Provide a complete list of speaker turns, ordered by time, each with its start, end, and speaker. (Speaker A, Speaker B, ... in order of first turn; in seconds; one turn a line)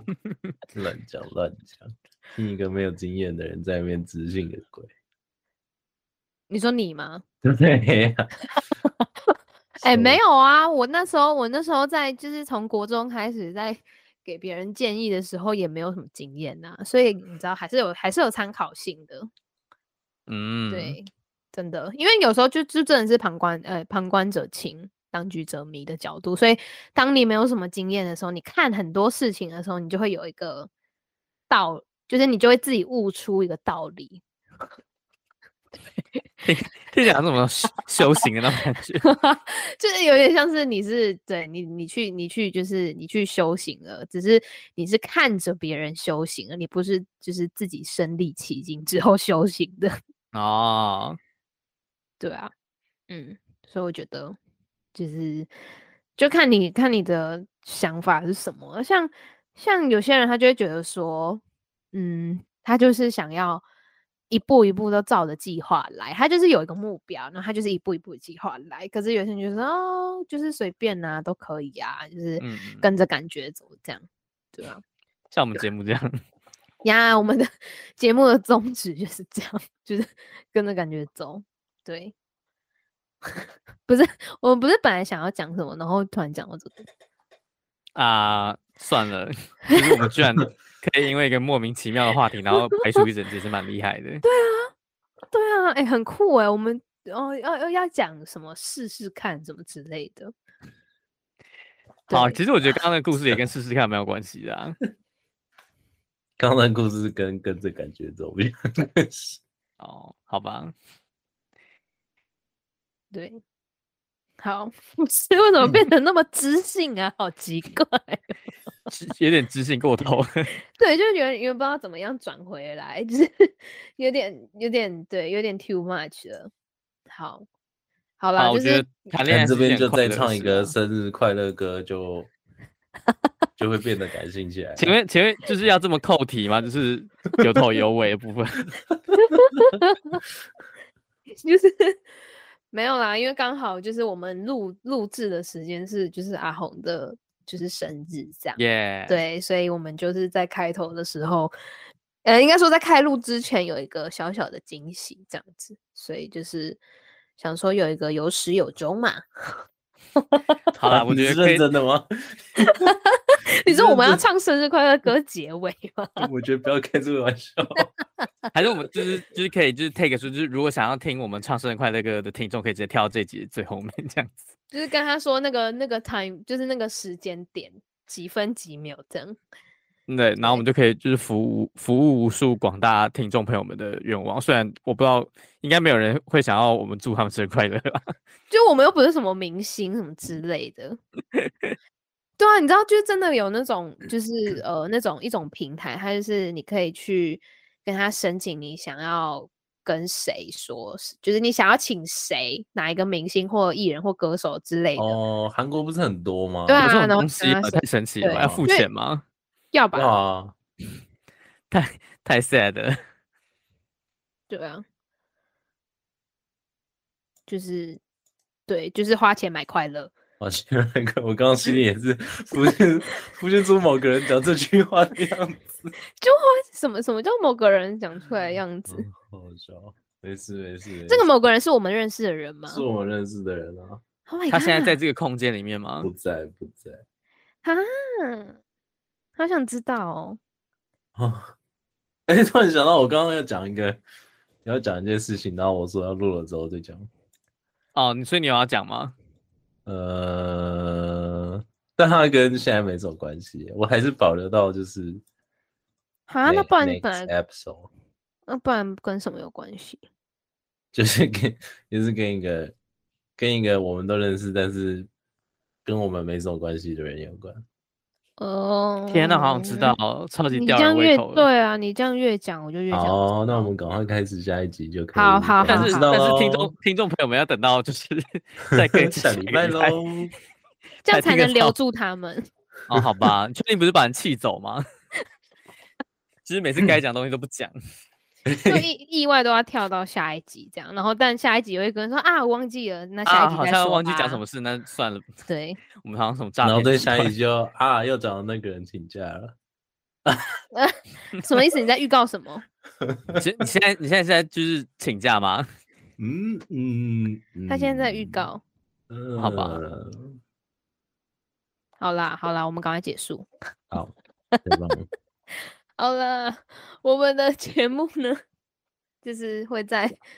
Speaker A: 0.7-4.9
Speaker B: 6.5-7.2
Speaker A: 7.4-8.3
Speaker B: 9.8-19.3
Speaker A: 9.8-10.2
Speaker C: 20.3-20.9
Speaker B: 20.7-30.7
Speaker B: 31.5-34.2
Speaker C: 36.4-39.0
Speaker B: 39.0-49.9
Speaker C: 50.3-51.2
Speaker B: 52.2-52.5
Speaker B: 53.1-54.4
Speaker B: 54.9-55.5
Speaker B: 56.2-61.4
Speaker B: 61.9-63.6
Speaker B: 64.3-74.0
Speaker C: 72.4-72.9
Speaker B: 74.5-74.8
Speaker C: 75.3-76.2
Speaker B: 76.8-82.1
Speaker B: 83.9-86.8
Speaker C: 87.9-94.2
Speaker B: 94.2-94.7
Speaker B: 95.3-100.3
Speaker B: 102.1-102.4
Speaker C: 102.1-104.8
Speaker A: 106.4-109.4
Speaker C: 109.8-110.7
Speaker B: 113.1-113.4
Speaker B: 114.4-118.3
Speaker C: 118.9-120.5
Speaker B: 120.8-126.5
Speaker B: 127.1-127.5
Speaker B: 128.2-128.9
Speaker C: 128.4-130.7
Speaker A: 129.3-132.3
Speaker A: 133.6-134.9
Speaker C: 134.8-138.7
Speaker B: 139.2-140.2
Speaker B: 141.4-142.0
Speaker B: 142.7-151.5
Speaker C: 148.6-149.2
Speaker B: 152.2-156.8
Speaker B: 157.4-159.2
Speaker C: 160.7-161.6
Speaker A: 160.9-162.9
Speaker B: 162.6-166.2
Speaker A: 163.7-164.2
Speaker A: 166.2-167.9
Speaker C: 168.5-174.4
Speaker B: 174.7-179.4
Speaker C: 180.1-188.1
Speaker B: 188.5-191.0
Speaker C: 191.3-191.8
Speaker B: 192.4-205.2
Speaker A: 204.9-206.9
Speaker B: 206.7-208.8
Speaker C: 206.8-209.2
Speaker A: 208.3-208.6
Speaker B: 209.7-210.1
Speaker A: 209.9-210.5
Speaker C: 211.7-213.0
Speaker B: 214.5-214.8
Speaker B: 217.5-218.0
Speaker B: 218.7-220.1
Speaker A: 220.4-225.9
Speaker B: 226.2-229.1
Speaker A: 228.9-231.2
Speaker B: 231.1-232.8
Speaker A: 232.7-234.0
Speaker B: 234.3-235.0
Speaker C: 234.5-236.1
Speaker A: 236.0-237.0
Speaker B: 237.6-238.6
Speaker B: 239.4-240.4
Speaker A: 241.2-241.5
Speaker A: 242.3-244.0
Speaker A: 244.6-247.1
Speaker C: 247.9-249.1
Speaker A: 249.8-255.2
Speaker B: 256.3-257.3
Speaker A: 256.4-257.9
Speaker B: 258.5-260.0
Speaker A: 260.9-262.7
Speaker A: 263.4-265.1
Speaker A: 265.8-267.6
Speaker B: 268.4-269.9
Speaker C: 269.1-271.5
Speaker B: 270.5-273.7
Speaker A: 272.9-276.7
Speaker B: 275.1-276.1
Speaker C: 275.7-280.0
Speaker A: 278.8-280.3
Speaker B: 281.0-282.5
Speaker C: 281.1-281.7
Speaker C: 282.9-284.8
Speaker C: 286.4-287.7
Speaker A: 288.5-288.9
Speaker B: 288.7-294.4
Speaker C: 293.2-295.3
Speaker B: 295.5-295.8
Speaker C: 296.0-297.3
Speaker A: 296.6-299.5
Speaker A: 300.2-300.5
Speaker B: 300.7-302.6
Speaker A: 303.0-303.6
Speaker C: 303.4-305.7
Speaker A: 306.2-308.5
Speaker B: 307.7-308.6
Speaker A: 309.1-310.3
Speaker C: 309.4-309.8
Speaker B: 312.0-313.5
Speaker A: 314.6-315.1
Speaker B: 316.0-318.4
Speaker B: 319.2-320.2